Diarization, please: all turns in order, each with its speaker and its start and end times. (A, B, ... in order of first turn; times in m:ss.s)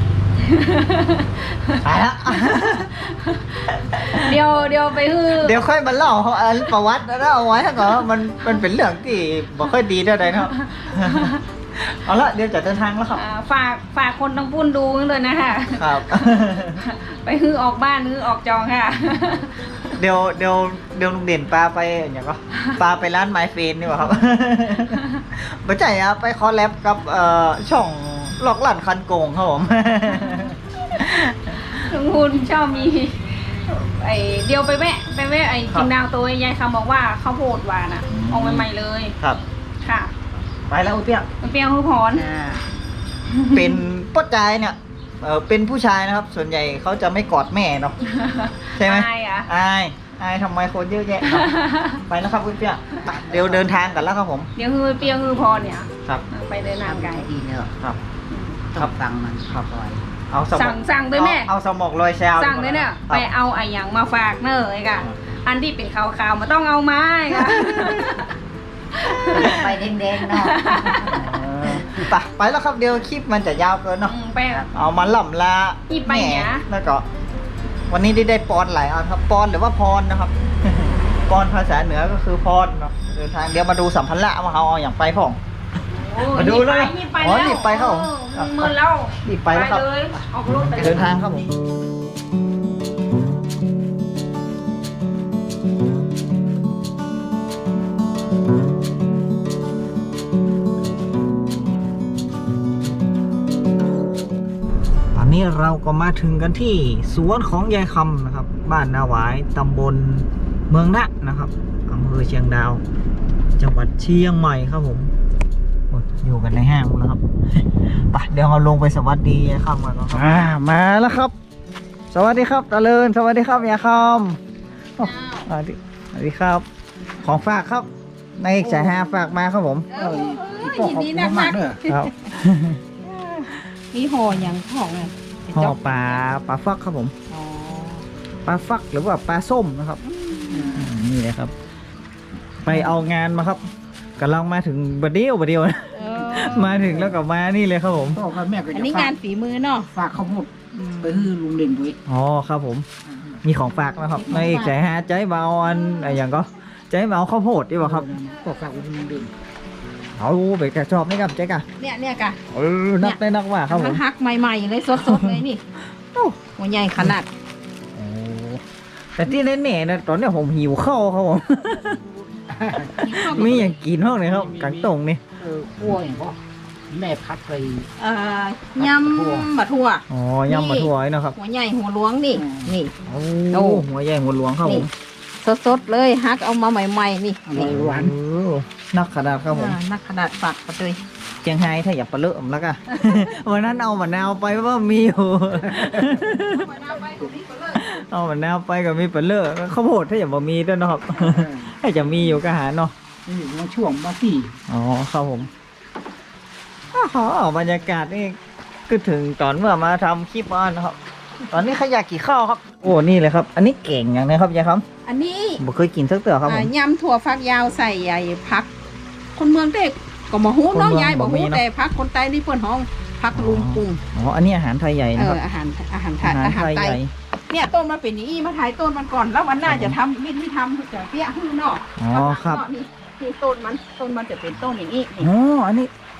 0:00.4-0:05.6 A
0:01.8-0:02.9 B
0:03.8-0:04.4 B
0:05.3-0:13.2 B
0:10.4-0:11.4 A
0:13.1-0:16.0 A
0:15.7-0:16.8 B
0:16.7-0:19.9 A
0:20.0-0:31.8 B
0:24.7-0:25.2 A
0:30.1-0:30.5 A
0:31.6-0:39.1 A
0:38.1-0:38.7 B
0:39.8-0:40.1 A
0:40.7-0:41.3 B
0:41.4-0:42.3 A
0:42.1-0:42.7 C
0:43.3-0:43.8 A
0:43.5-0:48.0 B
0:48.0-0:49.5 A
0:48.8-0:51.5 B
0:51.2-0:52.0 A
0:52.0-0:54.5 B
0:53.1-0:53.7 C
0:54.6-0:57.3 A
0:56.8-0:57.7 C
0:58.3-0:58.6 A
0:58.9-1:00.0 C
0:59.5-0:59.7 B
1:00.3-1:03.3 B
1:00.5-1:01.5 A
1:02.4-1:08.3 A
1:07.4-1:08.1 B
1:09.0-1:11.2 A
1:09.3-1:09.8 B
1:09.8-1:12.1 C
1:11.1-1:14.2 B
1:14.0-1:14.7 A
1:14.7-1:17.0 B
1:15.9-1:16.6 A
1:17.9-1:25.4 B
1:25.9-1:31.1 A
1:26.2-1:28.7 B
1:29.2-1:29.8 B
1:30.6-1:31.5 B
1:45.1-1:52.8 B
1:53.6-1:55.1 B
1:55.9-1:57.2 B
1:57.7-2:01.3 B
2:02.1-2:04.4 B
2:05.0-2:06.6 B
2:05.0-2:05.5 D
2:07.2-2:09.9 B
2:08.6-2:09.0 C
2:09.9-2:12.1 D
2:10.0-2:11.8 C
2:11.9-2:12.8 B
2:13.0-2:16.2 D
2:15.5-2:17.1 B
2:17.3-2:18.0 D
2:18.4-2:20.0 B
2:20.0-2:20.9 D
2:20.5-2:20.9 C
2:20.7-2:21.5 B
2:22.6-2:23.6 B
2:24.2-2:28.3 B
2:25.9-2:26.7 D
2:26.6-2:27.2 C
2:28.1-2:29.2 C
2:28.7-2:29.9 D
2:29.9-2:32.0 C
2:30.8-2:31.2 B
2:32.1-2:32.8 B
2:33.4-2:38.2 B
2:34.1-2:34.8 D
2:35.8-2:36.2 D
2:37.8-2:39.3 C
2:40.2-2:41.6 B
2:41.8-2:42.4 D
2:42.5-2:44.0 B
2:43.0-2:45.6 D
2:45.0-2:45.4 B
2:46.4-2:47.3 D
2:47.9-2:48.6 B
2:49.2-2:52.0 B
2:52.4-2:53.7 C
2:52.8-2:55.2 B
2:53.0-2:53.8 D
2:54.2-2:56.4 C
2:56.9-2:57.9 C
2:58.0-3:02.9 D
2:58.7-2:59.5 C
3:00.1-3:01.4 B
3:02.3-3:02.7 C
3:03.0-3:04.9 B
3:03.5-3:03.8 D
3:05.4-3:07.7 D
3:07.4-3:08.1 C
3:07.5-3:09.8 B
3:09.5-3:11.0 D
3:11.4-3:16.7 B
3:13.0-3:13.3 D
3:15.8-3:16.2 C
3:16.3-3:17.9 D
3:17.7-3:22.9 B
3:21.1-3:21.7 C
3:23.2-3:24.5 C
3:24.7-3:25.5 B
3:26.9-3:28.4 B
3:28.9-3:31.0 B
3:31.5-3:34.8 B
3:35.0-3:35.6 D
3:35.6-3:36.7 B
3:36.4-3:38.7 D
3:39.3-3:44.0 D
3:40.7-3:41.6 B
3:43.3-3:45.4 B
3:45.1-3:55.3 D
3:46.2-3:47.1 B
3:49.6-3:50.0 B
3:52.0-3:52.6 B
3:55.2-3:55.9 B